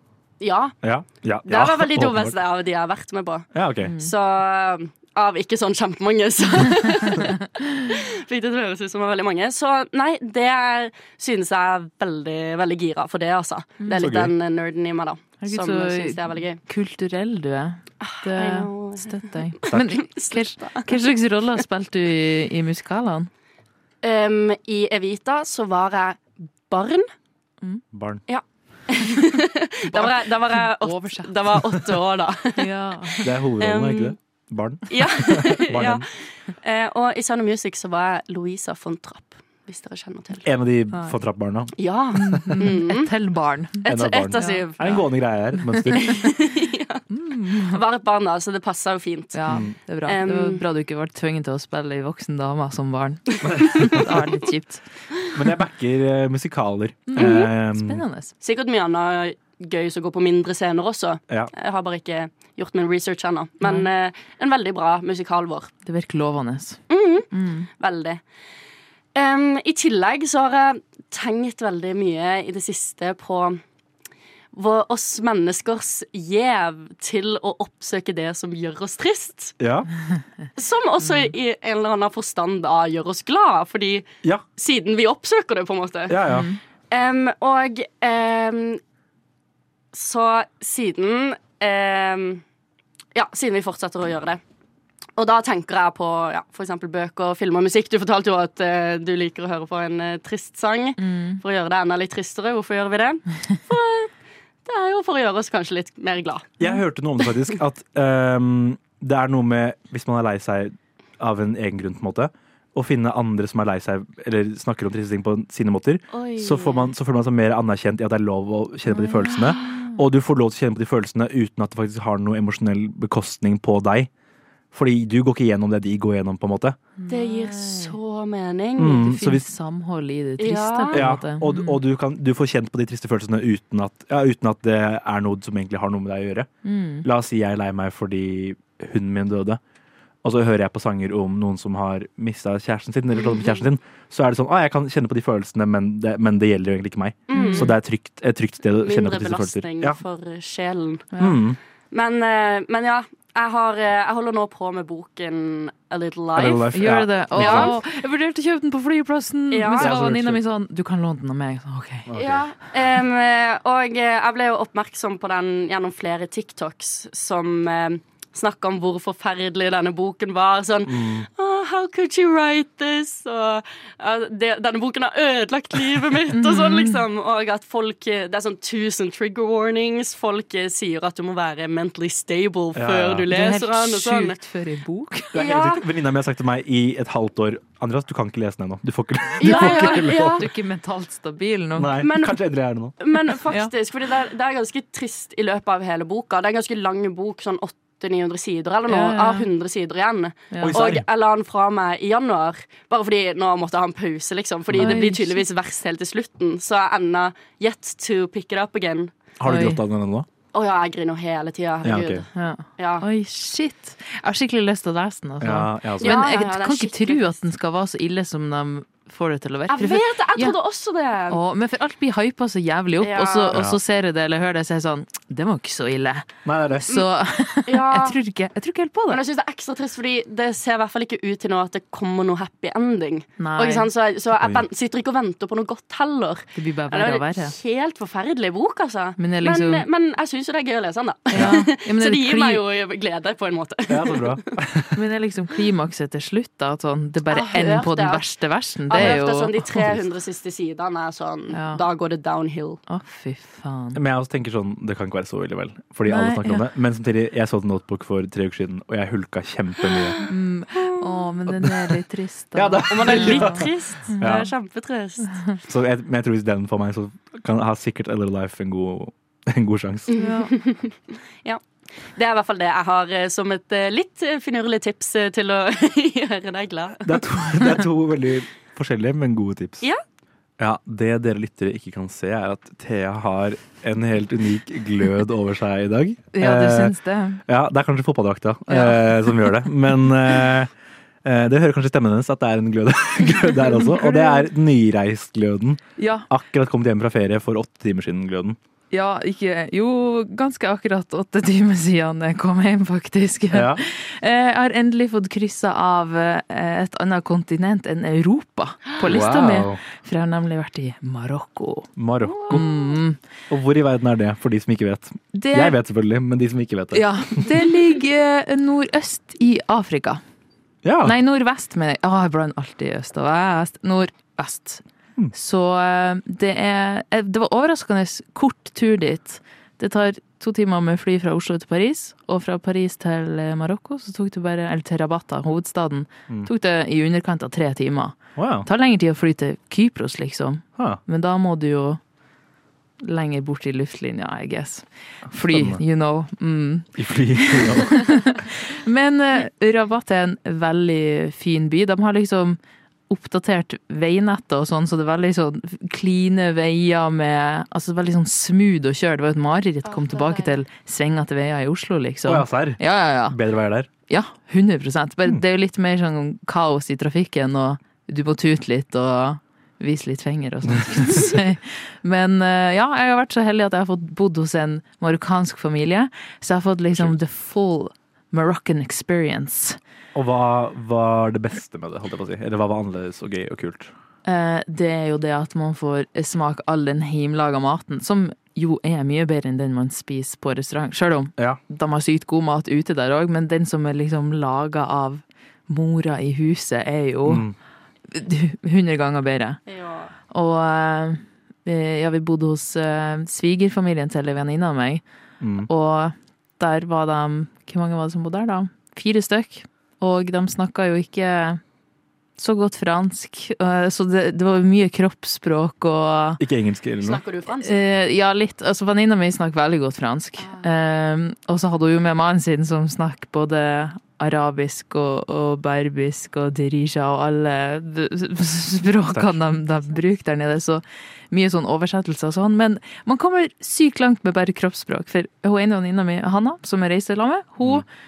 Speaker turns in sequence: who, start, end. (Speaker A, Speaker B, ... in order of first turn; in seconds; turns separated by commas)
Speaker A: 0.4-0.8, Speaker B: 0.8-2.4, Speaker A: 1.4-7.4, Speaker B: 3.5-3.9, Speaker C: 3.9-4.1, Speaker C: 7.0-7.9, Speaker A: 7.9-16.6, Speaker C: 13.8-14.1, Speaker B: 14.0-14.3, Speaker C: 15.4-23.3, Speaker A: 18.0-20.9, Speaker A: 24.0-27.1, Speaker B: 27.9-28.2, Speaker A: 28.3-34.2, Speaker C: 29.9-31.5, Speaker C: 32.6-33.3, Speaker B: 33.2-36.0, Speaker A: 34.9-36.1, Speaker A: 36.6-40.5, Speaker B: 40.4-42.6, Speaker A: 41.8-43.1, Speaker C: 42.1-44.6, Speaker A: 43.8-45.0, Speaker B: 43.9-46.2, Speaker A: 45.9-47.1, Speaker C: 47.1-47.8, Speaker A: 47.6-49.4, Speaker C: 49.3-54.8, Speaker B: 49.5-49.8, Speaker A: 50.1-50.6, Speaker B: 53.5-54.0, Speaker B: 55.3-58.0, Speaker C: 57.1-58.3, Speaker A: 57.2-57.5, Speaker A: 58.4-65.7, Speaker C: 65.9-67.7, Speaker A: 66.9-68.2, Speaker A: 69.2-73.6, Speaker A: 74.5-79.6, Speaker B: 79.6-79.9, Speaker A: 80.6-86.2, Speaker B: 86.1-86.5, Speaker C: 86.3-86.6, Speaker A: 86.9-88.8, Speaker A: 89.9-92.4, Speaker A: 93.2-94.4, Speaker A: 95.2-104.1, Speaker C: 101.0-101.4, Speaker A: 104.7-106.6, Speaker B: 106.6-124.1, Speaker A: 116.1-116.9, Speaker C: 118.9-120.0, Speaker B: 124.7-126.8, Speaker C: 127.0-128.0, Speaker A: 127.1-129.1, Speaker B: 128.8-129.4, Speaker C: 129.0-131.8, Speaker A: 130.4-131.1, Speaker B: 130.9-136.5, Speaker C: 136.6-137.1, Speaker B: 137.0-139.6, Speaker B: 140.2-150.0, Speaker A: 147.3-147.7, Speaker C: 147.3-147.7, Speaker A: 148.8-151.1, Speaker B: 151.2-151.6, Speaker A: 151.9-156.7, Speaker B: 156.3-157.8, Speaker C: 156.7-162.1, Speaker A: 157.3-157.8, Speaker A: 159.5-160.0, Speaker B: 159.8-160.4, Speaker B: 162.1-162.5, Speaker A: 162.1-184.4, Speaker B: 170.9-171.3, Speaker C: 176.3-177.0, Speaker B: 182.7-183.3, Speaker C: 183.3-185.3, Speaker B: 185.3-190.5, Speaker A: 185.3-185.8, Speaker A: 189.4-190.5, Speaker C: 189.4-191.9, Speaker B: 191.8-193.0, Speaker A: 192.0-192.4, Speaker A: 193.0-209.2, Speaker C: 198.9-199.5, Speaker C: 200.5-200.8, Speaker B: 200.6-201.1, Speaker B: 204.7-205.0, Speaker C: 204.8-205.4, Speaker B: 209.4-210.3, Speaker C: 209.4-209.8, Speaker A: 210.5-213.1, Speaker B: 211.8-212.2, Speaker C: 212.3-220.6, Speaker B: 215.4-216.2, Speaker A: 216.0-217.4, Speaker A: 219.7-221.4, Speaker C: 221.3-229.2, Speaker A: 223.0-223.6, Speaker B: 223.5-223.8, Speaker B: 226.4-226.9, Speaker A: 227.7-228.2, Speaker A: 229.1-244.4, Speaker C: 233.4-233.9, Speaker B: 234.4-234.7, Speaker C: 236.6-237.5, Speaker C: 239.2-239.9, Speaker C: 241.3-242.6, Speaker B: 243.9-245.0, Speaker C: 244.9-249.6, Speaker A: 247.3-248.3, Speaker A: 248.9-252.8, Speaker C: 251.5-251.8, Speaker C: 252.9-254.0, Speaker B: 253.9-260.2, Speaker C: 256.1-256.7, Speaker C: 260.3-264.2, Speaker B: 261.5-261.9, Speaker B: 262.5-264.5, Speaker A: 262.9-265.4, Speaker B: 265.7-270.1, Speaker A: 270.1-271.6, Speaker C: 270.1-270.5, Speaker A: 272.2-277.2, Speaker B: 277.1-279.9, Speaker B: 280.6-286.9, Speaker C: 286.3-287.4, Speaker B: 287.5-290.7, Speaker C: 288.7-289.5, Speaker B: 291.2-298.6, Speaker C: 293.7-294.5, Speaker C: 296.0-296.3, Speaker C: 298.9-311.9, Speaker B: 303.5-303.8, Speaker B: 309.0-309.8, Speaker B: 312.0-312.6, Speaker A: 312.4-312.9, Speaker C: 312.5-313.2, Speaker B: 313.5-317.5, Speaker C: 315.3-315.8, Speaker C: 316.9-320.2, Speaker B: 320.8-321.2, Speaker C: 321.0-324.8, Speaker C: 325.3-342.0, Speaker B: 338.4-338.7, Speaker C: 343.0-352.6, Speaker B: 345.3-345.8, Speaker B: 347.0-348.3, Speaker C: 353.1-363.4, Speaker A: 359.9-360.5, Speaker B: 362.3-363.9, Speaker C: 364.1-379.8, Speaker B: 380.1-383.9, Speaker C: 384.2-397.5, Speaker B: 397.3-397.6, Speaker C: 398.1-399.6, Speaker A: 399.7-400.1, Speaker C: 400.3-405.0, Speaker B: 405.4-405.7, Speaker C: 405.7-411.6, Speaker C: 412.4-416.4, Speaker B: 416.4-417.2, Speaker A: 417.0-417.8, Speaker C: 417.6-437.9, Speaker A: 420.4-420.7